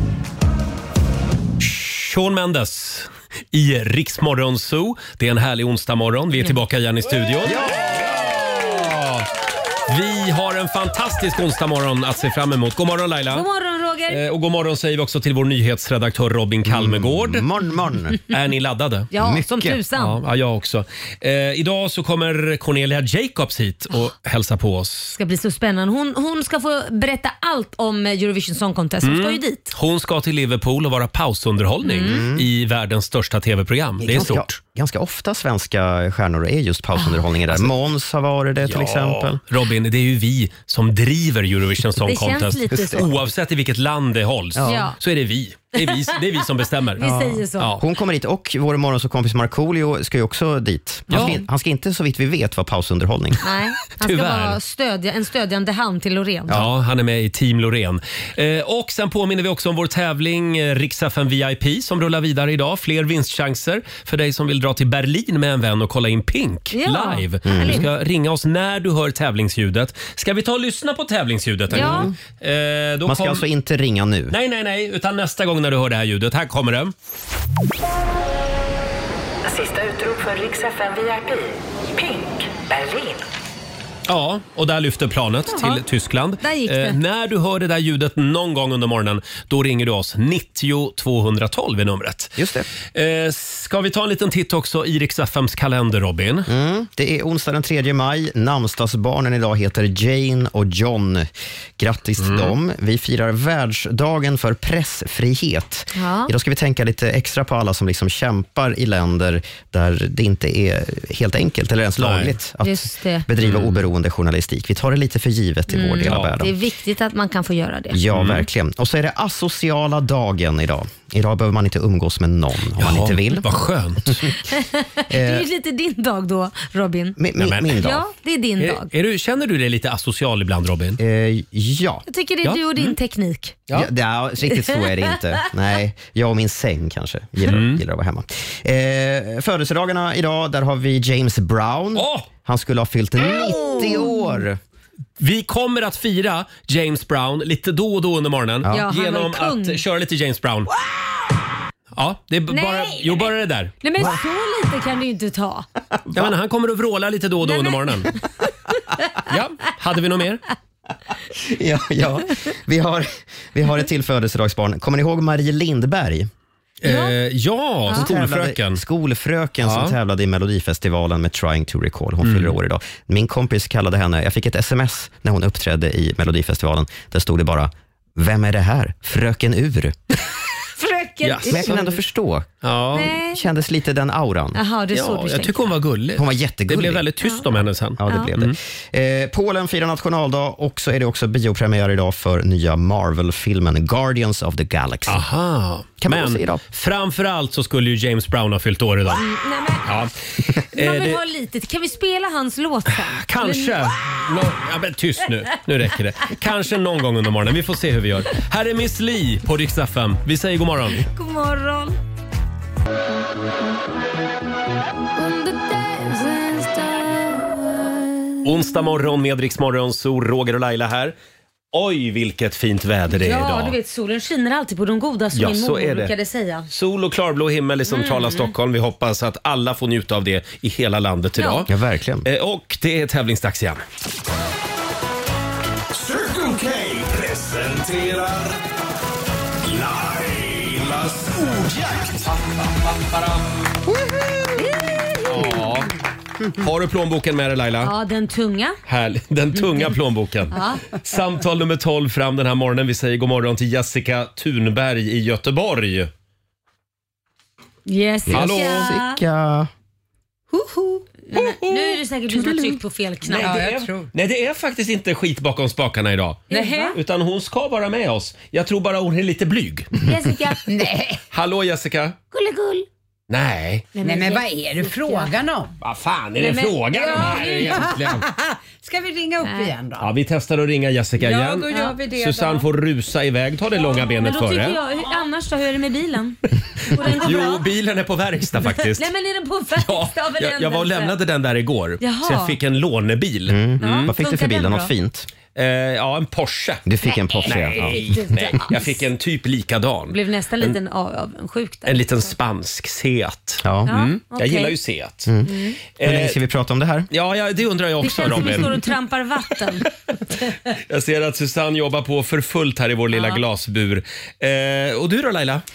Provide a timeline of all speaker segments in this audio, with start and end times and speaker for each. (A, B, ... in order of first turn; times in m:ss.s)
0:01.6-0:09.2 A
0:07.4-0:08.3 B
0:09.9-0:13.5 A
0:13.3-0:14.2 C
0:14.1-0:17.5 A
0:16.6-0:18.2 B
0:18.3-0:19.1 A
0:19.1-0:20.2 C
0:19.1-0:19.8 B
0:19.9-0:25.2 A
0:25.1-0:29.8 C
0:29.0-0:34.6 A
0:31.8-0:32.3 C
0:32.0-0:32.4 B
0:34.0-0:39.4 B
0:37.0-0:37.2 C
0:38.7-0:47.0 A
0:42.0-0:43.1 C
0:42.7-0:43.1 B
0:44.6-0:44.9 B
0:44.6-0:45.0 C
0:47.0-0:47.8 C
0:47.0-0:53.4 B
0:47.6-0:47.8 A
0:51.1-0:51.4 A
0:53.4-0:56.6 C
0:54.0-0:54.6 A
0:56.5-1:13.4 A
1:06.7-1:07.9 C
1:07.4-1:07.9 B
1:11.7-1:12.1 C
1:11.7-1:12.1 B
1:13.0-1:14.3 B
1:14.3-1:16.9 A
1:19.4-1:23.2 D
1:24.1-1:32.4 A
1:25.5-1:25.8 C
1:26.4-1:27.0 C
1:32.4-1:32.7 B
1:32.9-1:36.5 A
1:36.5-1:56.5 B
1:42.2-1:42.5 A
1:45.9-1:46.3 C
1:52.0-1:52.3 A
1:52.6-1:53.3 C
1:53.4-1:53.9 A
1:55.7-1:58.0 C
1:56.0-1:56.4 A
1:57.9-2:03.5 B
1:58.1-1:58.4 A
2:02.8-2:04.3 A
2:04.5-2:07.2 C
2:05.1-2:05.5 B
2:07.2-2:08.0 B
2:07.4-2:07.9 A
2:07.7-2:08.9 C
2:08.6-2:11.0 A
2:11.0-2:12.0 B
2:12.1-2:13.7 C
2:12.4-2:13.0 A
2:13.7-2:24.6 B
2:17.4-2:17.8 A
2:22.0-2:22.3 A
2:23.2-2:24.4 C
2:25.2-2:30.7 A
2:28.7-2:29.8 C
2:32.0-2:33.8 A
2:32.5-2:35.7 C
2:36.1-2:38.1 A
2:37.4-2:38.2 C
2:39.3-2:40.4 A
2:41.3-2:46.3 B
2:46.8-2:48.8 A
2:46.8-2:47.2 C
2:47.9-3:00.0 B
2:49.6-2:50.0 A
2:52.2-2:52.6 A
3:00.8-3:02.0 C
3:01.2-3:02.0 A
3:01.5-3:04.6 B
3:02.6-3:03.1 A
3:02.9-3:03.4 C
3:04.5-3:05.8 C
3:04.9-3:08.6 A
3:06.2-3:07.0 B
3:07.2-3:07.5 C
3:08.0-3:15.2 B
3:08.1-3:08.3 C
3:15.1-3:19.2 A
3:16.0-3:16.6 B
3:19.1-3:19.9 C
3:19.8-3:20.1 A
3:20.7-3:21.2 A
3:20.8-3:24.3 C
3:23.2-3:31.1 A
3:31.0-3:32.0 C
3:35.2-3:39.0 C
3:38.4-3:41.2 A
3:41.7-3:43.8 A
3:43.1-3:46.7 C
3:45.3-3:46.1 A
3:46.7-3:51.7 A
3:47.9-3:48.5 C
3:51.4-3:51.7 C
3:51.7-3:52.3 B
3:52.2-3:53.8 A
3:55.9-3:58.6 E
3:59.6-4:03.4 E
4:04.6-4:05.6 C
4:05.2-4:05.9 A
4:06.6-4:07.9 A
4:07.8-4:08.8 C
4:08.9-4:16.1 A
4:10.5-4:10.8 C
4:17.9-4:19.2 C
4:18.3-4:19.7 B
4:18.3-4:18.9 A
4:20.5-4:23.6 C
4:23.2-4:30.0 A
4:23.4-4:24.1 F
4:26.5-4:27.0 C
4:26.5-4:26.9 F
4:30.0-4:30.8 C
4:30.7-4:31.2 F
4:31.3-4:32.2 A
4:32.3-4:32.9 C
4:33.3-4:33.9 A
4:33.9-4:35.3 C
4:34.0-4:35.7 F
4:35.8-4:38.2 A
4:36.4-4:38.0 C
4:37.0-4:40.1 F
4:39.4-4:39.7 C
4:40.0-4:44.8 A
4:41.2-4:42.6 F
4:41.7-4:42.0 C
4:43.8-4:47.7 C
4:47.0-4:49.1 A
4:48.6-4:51.2 C
4:49.8-4:54.1 A
4:52.0-4:52.6 C
4:53.5-4:55.3 B
4:53.8-4:54.9 C
4:55.6-4:56.9 A
4:56.9-4:58.6 B
4:57.0-4:59.0 C
4:57.4-5:00.8 A
5:00.1-5:02.3 C
5:01.9-5:05.3 A
5:03.6-5:03.9 B
5:03.9-5:04.8 C
5:05.3-5:07.1 B
5:05.4-5:05.8 C
5:05.9-5:06.4 A
5:07.1-5:08.8 A
5:08.0-5:09.9 C
5:10.9-5:15.6 A
5:13.1-5:13.4 C